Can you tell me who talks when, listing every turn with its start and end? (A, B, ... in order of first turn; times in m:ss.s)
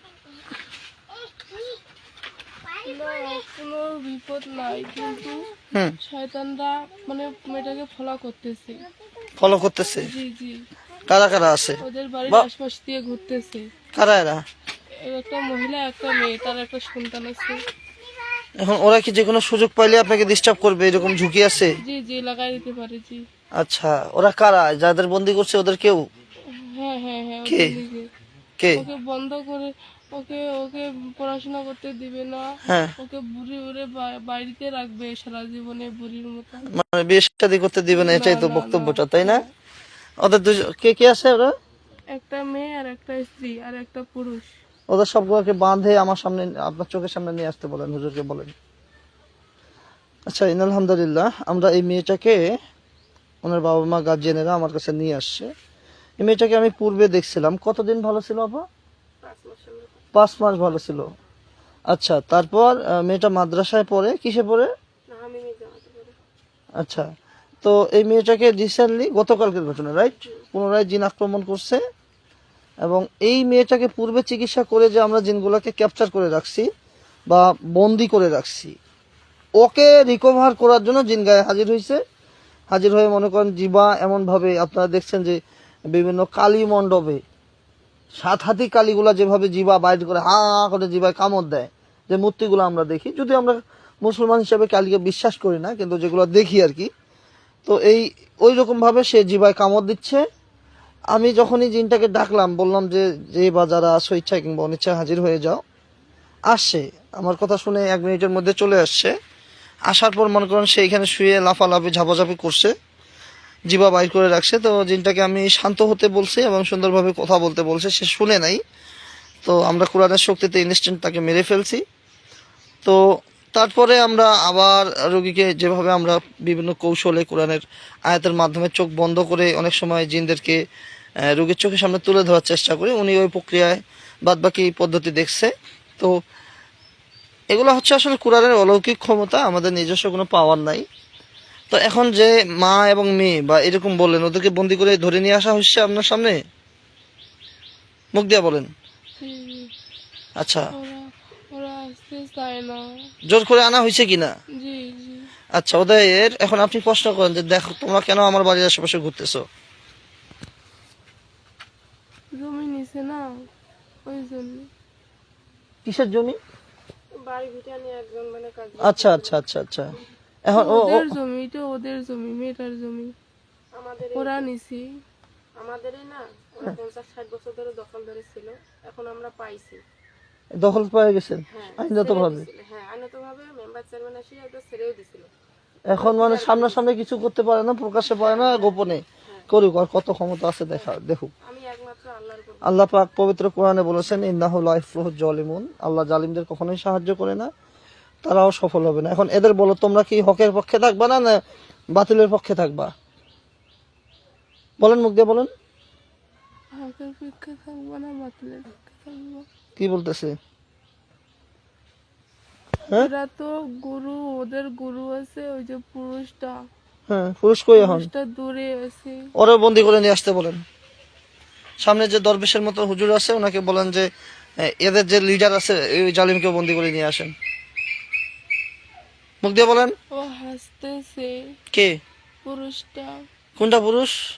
0:02.8-0:05.5 A
0:06.0-0:08.8 A
0:09.4-0:10.1 B
0:10.0-0:10.6 A
0:11.1-0:12.4 B
0:11.8-0:13.7 A
0:13.9-0:14.4 B
0:15.0-0:17.6 A
0:18.6-0:21.8 B
0:21.8-0:23.2 A
0:23.6-0:26.0 B
0:26.5-0:28.1 A
0:27.4-0:27.8 B
0:28.6-0:28.8 B
0:28.7-0:36.7 A
0:32.6-0:32.9 B
0:36.7-0:39.4 B
0:37.9-0:39.5 A
0:40.2-0:41.5 B
0:42.1-0:44.5 A
0:44.9-0:48.5 B
0:50.3-0:52.5 B
0:53.4-0:55.5 B
0:56.2-0:58.6 B
0:59.2-1:00.1 C
1:00.1-1:01.1 B
1:01.9-1:04.7 B
1:05.1-1:06.1 C
1:06.8-1:07.1 B
1:07.6-1:11.8 B
1:12.8-1:16.7 B
1:17.3-1:18.7 B
1:19.6-1:22.0 B
1:22.7-1:25.4 B
1:25.9-1:27.2 B
1:28.2-1:36.9 B
1:37.6-1:40.2 B
1:41.1-1:45.6 B
1:46.5-1:49.1 B
1:49.9-1:52.7 B
1:53.7-1:58.6 B
1:59.4-2:01.8 B
2:03.5-2:10.6 B
2:11.2-2:16.1 B
2:17.5-2:20.8 B
2:21.7-2:26.4 B
2:28.1-2:28.7 B
2:29.2-2:29.7 A
2:30.4-2:30.7 B
2:30.7-2:32.8 A
2:33.3-2:34.3 B
2:34.6-2:35.3 A
2:35.6-2:39.4 B
2:42.3-2:43.3 A
2:44.0-2:44.7 A
2:45.8-2:46.4 B
2:47.2-2:49.4 C
2:48.8-2:49.9 B
2:50.4-2:51.1 B
2:50.5-2:53.1 A
2:53.7-2:54.5 C
2:54.1-2:55.0 A
2:55.6-2:59.8 C
3:00.6-3:02.4 B
3:01.5-3:05.3 C
3:05.9-3:11.3 B
3:05.9-3:06.9 C
3:08.1-3:09.5 C
3:11.4-3:12.8 C
3:12.6-3:17.5 B
3:18.2-3:21.4 B
3:21.9-3:22.9 B
3:24.8-3:25.5 B
3:26.7-3:29.5 A
3:29.8-3:30.4 B
3:32.9-3:36.6 A
3:37.1-3:38.1 B
3:37.8-3:39.3 A
3:39.4-3:40.6 B
3:41.8-3:44.1 B
3:44.6-3:47.3 B
3:49.4-3:49.9 B
3:50.1-3:51.5 A
3:51.7-3:52.0 B
3:52.4-3:53.2 A
3:53.6-3:54.2 B